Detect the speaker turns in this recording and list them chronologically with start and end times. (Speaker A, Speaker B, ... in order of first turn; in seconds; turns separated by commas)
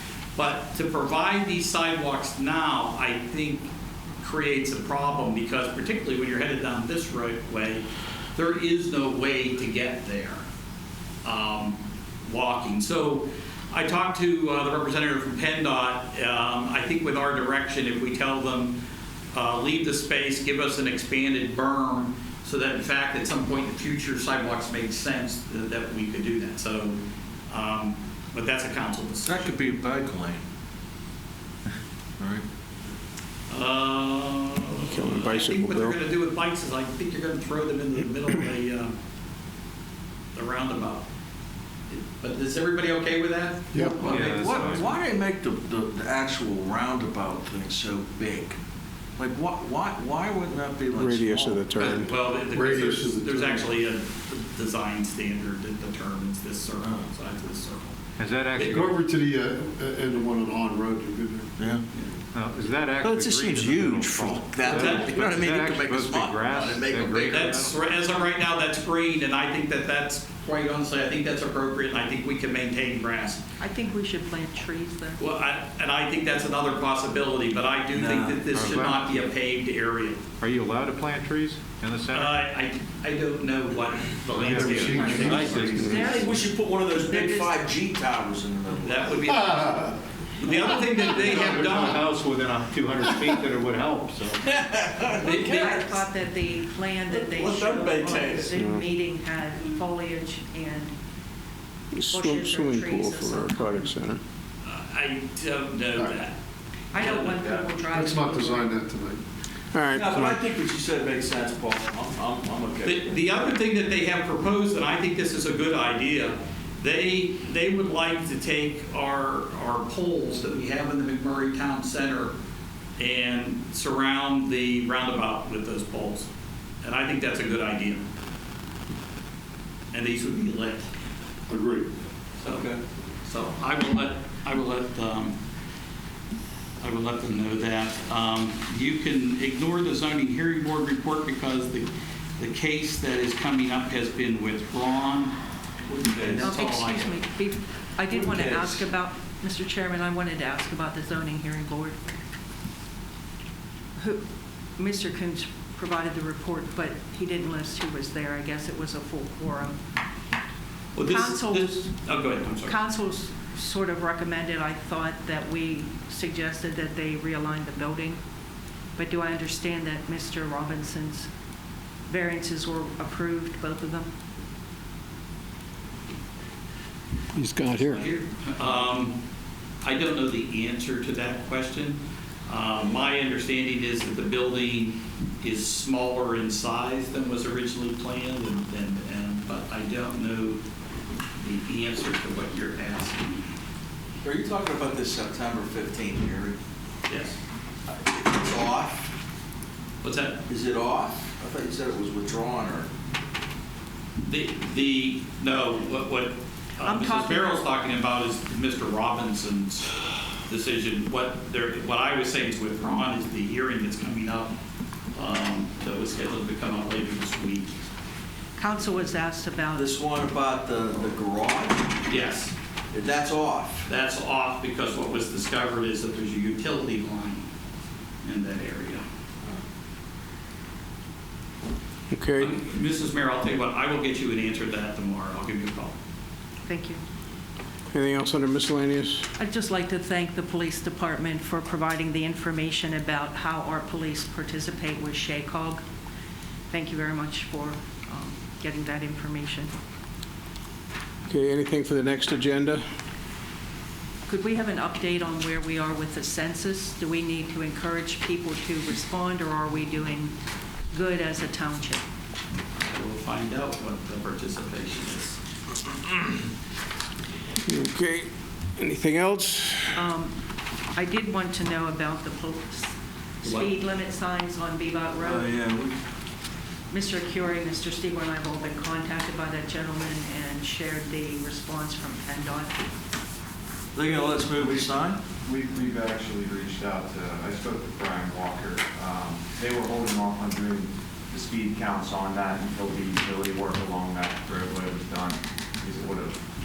Speaker A: 0.4-10.4, Speaker A: 11.2-18.8, Speaker A: 19.3-27.0, Speaker A: 27.5-29.6, Speaker B: 29.2-30.4, Speaker B: 32.2-32.4, Speaker A: 33.5-39.0, Speaker C: 34.9-36.0, Speaker A: 40.4-41.1, Speaker A: 41.9-44.5, Speaker D: 43.7-44.0, Speaker E: 44.0-45.0, Speaker B: 44.0-48.6, Speaker B: 49.2-52.0, Speaker C: 50.9-52.1, Speaker A: 51.8-58.0, Speaker D: 52.4-53.8, Speaker E: 58.2-58.9, Speaker A: 58.6-58.9, Speaker D: 58.6-61.8, Speaker E: 62.3-67.8, Speaker B: 63.0-67.5, Speaker A: 64.7-65.2, Speaker A: 67.2-73.4, Speaker F: 73.6-75.2, Speaker A: 75.2-80.2, Speaker B: 77.9-78.4, Speaker E: 78.5-79.2, Speaker E: 80.4-82.4, Speaker A: 82.1-86.0, Speaker E: 84.3-86.2, Speaker D: 84.3-86.0, Speaker F: 84.8-87.6, Speaker B: 85.9-89.3, Speaker A: 88.8-92.0, Speaker D: 89.3-89.9, Speaker E: 91.0-94.5, Speaker B: 94.4-96.0, Speaker F: 95.2-100.9, Speaker A: 95.2-95.6, Speaker B: 97.1-98.5, Speaker C: 98.5-98.9, Speaker C: 102.0-104.2, Speaker F: 102.1-104.0, Speaker A: 104.6-106.4, Speaker A: 106.9-107.7, Speaker F: 106.9-108.8, Speaker D: 107.9-109.2, Speaker C: 109.7-110.4, Speaker B: 109.9-113.2, Speaker A: 112.8-122.3, Speaker A: 123.0-126.3, Speaker A: 126.8-128.1, Speaker A: 129.9-130.9, Speaker D: 131.5-131.9, Speaker A: 132.4-132.7, Speaker B: 132.5-132.8, Speaker A: 133.2-135.4, Speaker A: 136.8-141.9, Speaker A: 142.4-145.3, Speaker B: 145.9-146.7, Speaker A: 146.2-147.1, Speaker F: 146.4-152.0, Speaker B: 148.1-148.8, Speaker F: 154.0-154.2, Speaker F: 154.8-159.8, Speaker A: 160.9-162.8, Speaker F: 161.0-162.1, Speaker F: 162.6-168.2, Speaker F: 169.0-171.3, Speaker F: 172.1-174.1, Speaker C: 177.4-177.7, Speaker A: 177.6-179.2, Speaker A: 179.8-190.6, Speaker A: 191.4-193.3, Speaker B: 194.2-196.6, Speaker A: 197.1-197.4, Speaker B: 197.9-199.1, Speaker A: 200.0-200.4, Speaker B: 200.5-202.9, Speaker A: 204.2-214.5, Speaker F: 206.8-207.7, Speaker A: 215.2-217.8, Speaker F: 218.6-219.9, Speaker B: 219.8-221.9, Speaker A: 222.1-222.6, Speaker B: 222.9-223.9, Speaker A: 223.9-227.5, Speaker A: 228.2-229.0, Speaker C: 232.1-232.5, Speaker A: 232.4-235.9, Speaker F: 236.7-237.0, Speaker C: 237.9-239.3, Speaker F: 239.4-245.8, Speaker F: 246.7-249.7, Speaker C: 251.3-252.8, Speaker F: 254.3-260.4, Speaker F: 260.9-262.0, Speaker A: 262.8-265.4, Speaker C: 267.7-270.1, Speaker F: 269.9-270.4, Speaker F: 270.9-275.5, Speaker A: 273.4-273.7, Speaker B: 275.2-275.9, Speaker F: 276.9-282.8, Speaker B: 283.9-285.2, Speaker G: 284.4-296.4